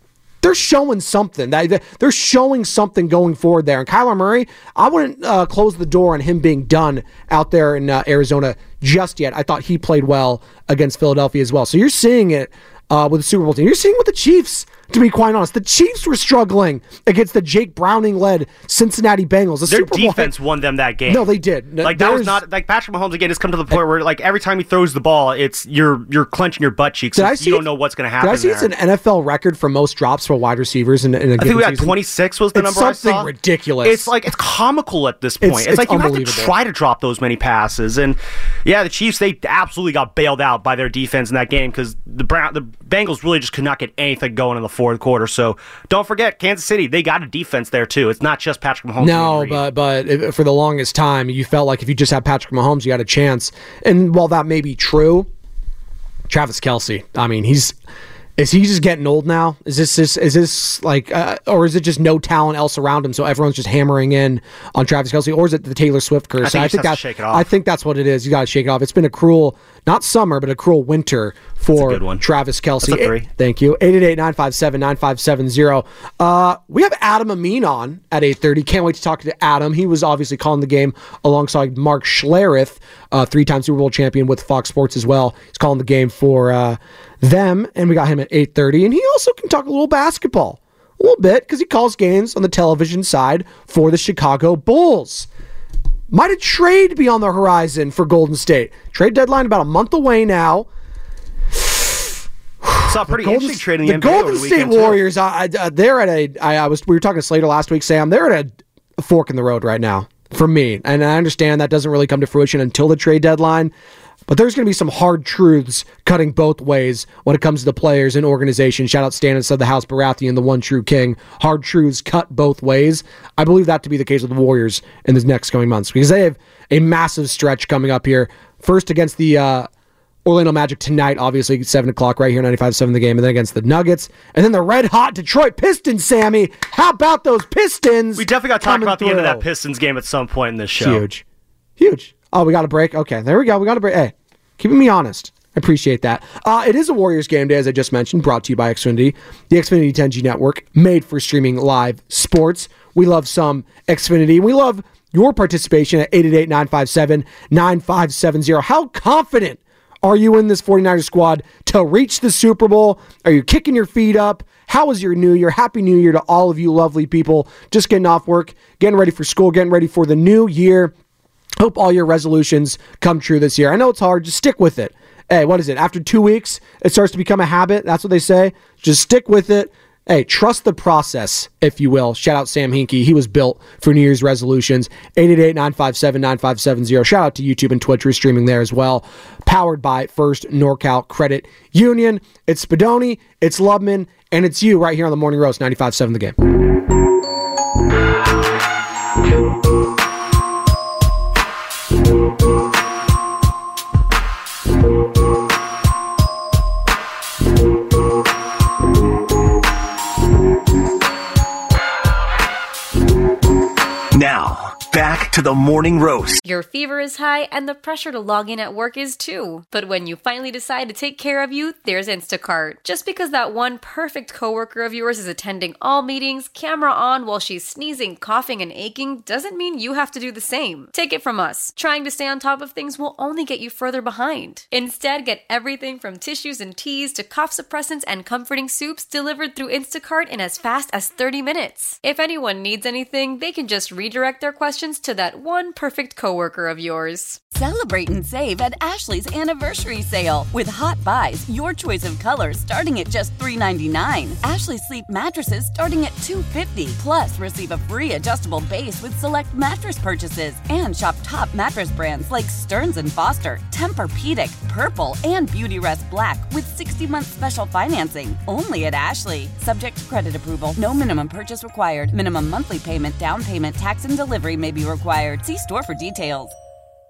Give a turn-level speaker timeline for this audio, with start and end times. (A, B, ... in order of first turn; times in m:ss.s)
0:00.4-0:20.3 A
0:19.7-0:21.3 B
0:21.1-0:22.4 A
0:21.8-0:28.7 B
0:27.1-0:27.6 A
0:28.2-0:32.0 A
0:31.4-0:33.3 B
0:32.5-0:34.1 A
0:33.8-0:49.6 B
0:35.4-0:36.5 A
0:49.0-0:55.3 A
0:56.3-0:57.8 A
0:58.4-1:35.3 A
1:06.4-1:07.4 B
1:11.7-1:12.2 B
1:12.8-1:13.2 B
1:36.1-1:40.7 A
1:41.5-1:42.1 A
1:42.6-1:53.7 A
1:42.8-1:45.0 B
1:54.3-2:09.7 A
2:10.2-2:19.4 A
2:18.2-2:21.0 B
2:20.8-2:21.2 A
2:21.8-2:50.9 A
2:51.6-3:16.4 A
3:34.1-3:36.4 C
3:36.4-4:07.4 D
4:07.5-4:36.5 E